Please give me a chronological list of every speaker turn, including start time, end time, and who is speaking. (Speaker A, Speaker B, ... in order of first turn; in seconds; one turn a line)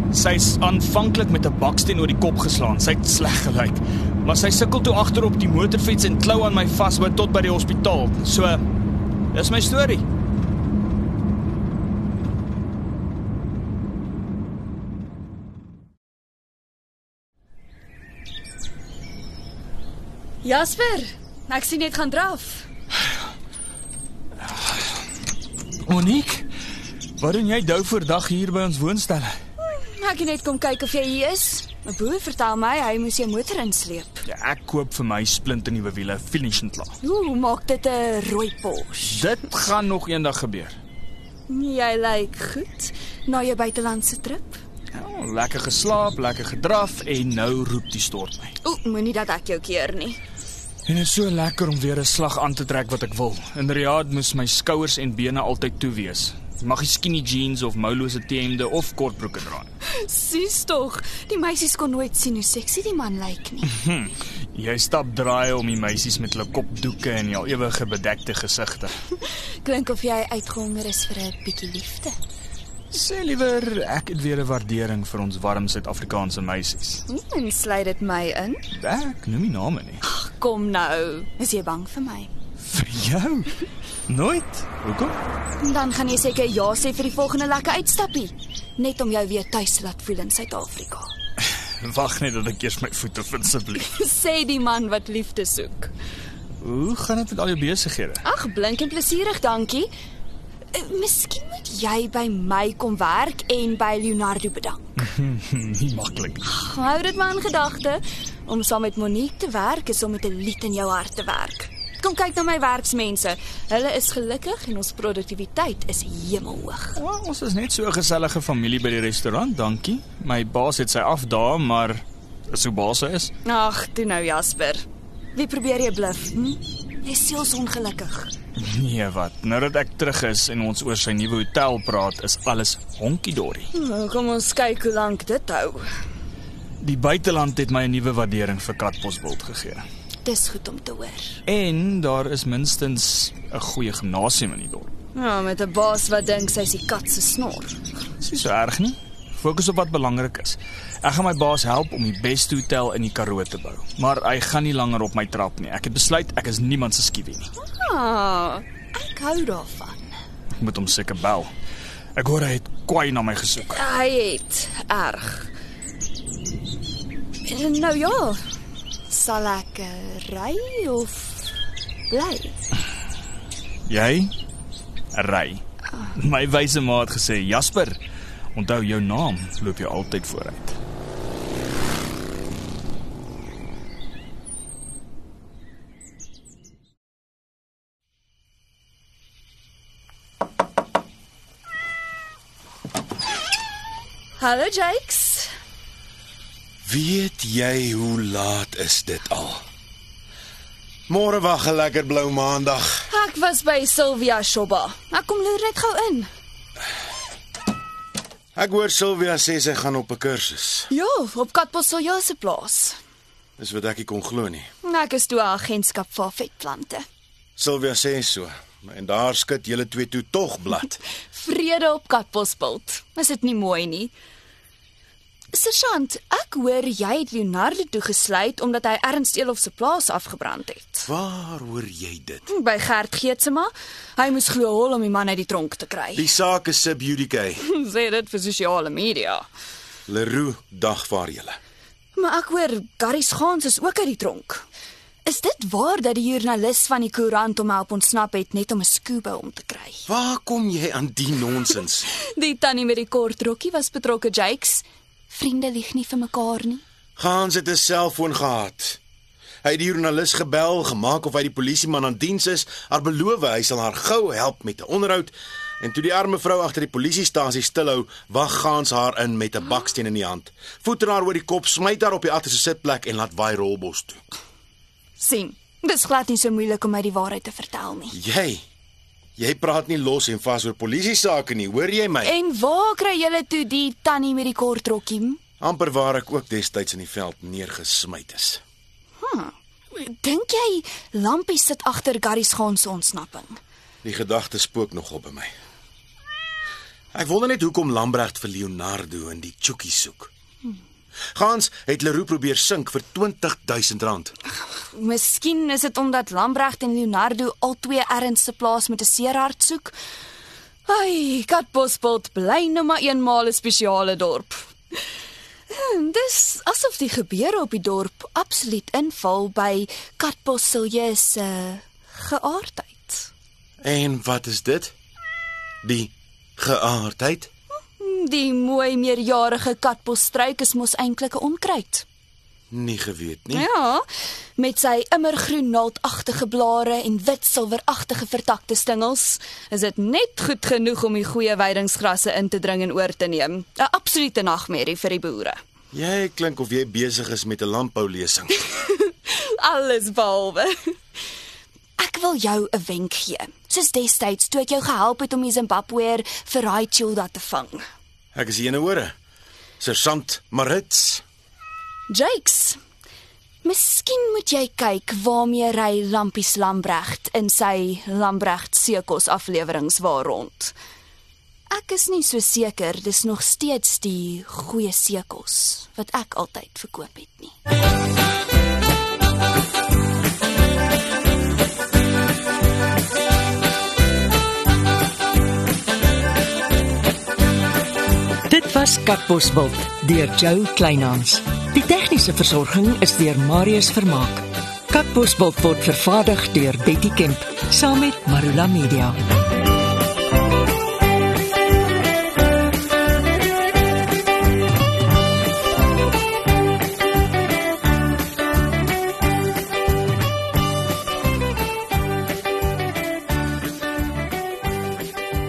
Speaker A: 0.1-8.6
Speaker A: 9.3-10.0
Speaker B: 20.4-22.7
Speaker A: 24.5-24.7
Speaker A: 25.9-26.5
Speaker A: 27.2-29.4
Speaker B: 29.6-34.2
Speaker A: 34.2-36.9
Speaker B: 37.0-39.2
Speaker A: 39.1-40.8
Speaker B: 41.5-44.6
Speaker A: 44.9-48.5
Speaker B: 48.6-50.2
Speaker A: 50.9-59.7
Speaker B: 59.9-63.7
Speaker A: 63.7-68.9
Speaker B: 69.2-72.2
Speaker A: 72.9-77.0
Speaker B: 77.1-78.6
Speaker A: 78.8-80.0
Speaker B: 80.0-82.3
Speaker A: 82.7-85.2
Speaker B: 85.6-91.1
Speaker A: 91.8-93.8
Speaker B: 93.8-95.9
Speaker A: 96.6-98.2
Speaker B: 98.2-99.9
Speaker B: 100.7-104.9
Speaker A: 105.0-106.4
Speaker B: 106.4-117.0
Speaker A: 117.0-123.3
Speaker B: 123.4-128.3
Speaker A: 128.6-133.7
Speaker B: 133.7-135.8
Speaker A: 136.8-139.8
Speaker B: 140.2-141.4
Speaker A: 141.4-144.9
Speaker B: 145.1-147.8
Speaker A: 148.2-157.5
Speaker B: 157.6-160.2
Speaker A: 160.6-161.5
Speaker A: 162.2-163.8
Speaker B: 163.7-165.5
Speaker B: 167.4-168.4
Speaker B: 169.1-171.4
Speaker B: 172.1-172.6
Speaker A: 173.9-174.3
Speaker A: 175.1-175.6
Speaker A: 176.1-178.0
Speaker A: 178.5-180.8
Speaker B: 194.4-195.5
Speaker C: 196.8-199.6
Speaker C: 201.1-203.0
Speaker B: 203.1-206.3
Speaker C: 208.6-210.9
Speaker B: 210.9-213.0
Speaker C: 213.6-214.7
Speaker B: 214.8-217.0
Speaker C: 217.6-221.0
Speaker B: 221.3-224.1
Speaker B: 225.5-231.1
Speaker C: 231.1-232.4
Speaker B: 232.5-236.2
Speaker C: 236.1-237.6
Speaker B: 237.6-239.4
Speaker C: 240.1-241.6
Speaker B: 242.1-244.6
Speaker B: 245.2-250.0
Speaker C: 250.1-252.1
Speaker B: 252.2-256.8
Speaker C: 257.2-259.0
Speaker C: 259.6-274.2
Speaker B: 275.2-278.1
Speaker C: 278.1-278.6
Speaker C: 279.4-282.3
Speaker B: 282.2-285.4
Speaker C: 285.6-288.6
Speaker B: 289.2-293.6
Speaker C: 294.0-295.5
Speaker C: 297.1-300.3
Speaker C: 301.3-304.3
Speaker B: 304.8-309.9
Speaker B: 310.9-314.6
Speaker B: 315.7-323.3
Speaker C: 323.8-324.9
Speaker C: 325.8-327.5
Speaker B: 328.0-332.0
Speaker C: 332.7-333.7
Speaker B: 333.5-345.6
Speaker C: 345.9-348.6
Speaker B: 348.6-351.0
Speaker B: 352.0-357.8
Speaker C: 358.3-359.1
Speaker C: 359.8-361.2
Speaker B: 362.1-362.8
Speaker B: 363.6-370.8
Speaker B: 371.7-377.5
Speaker D: 388.5-399.2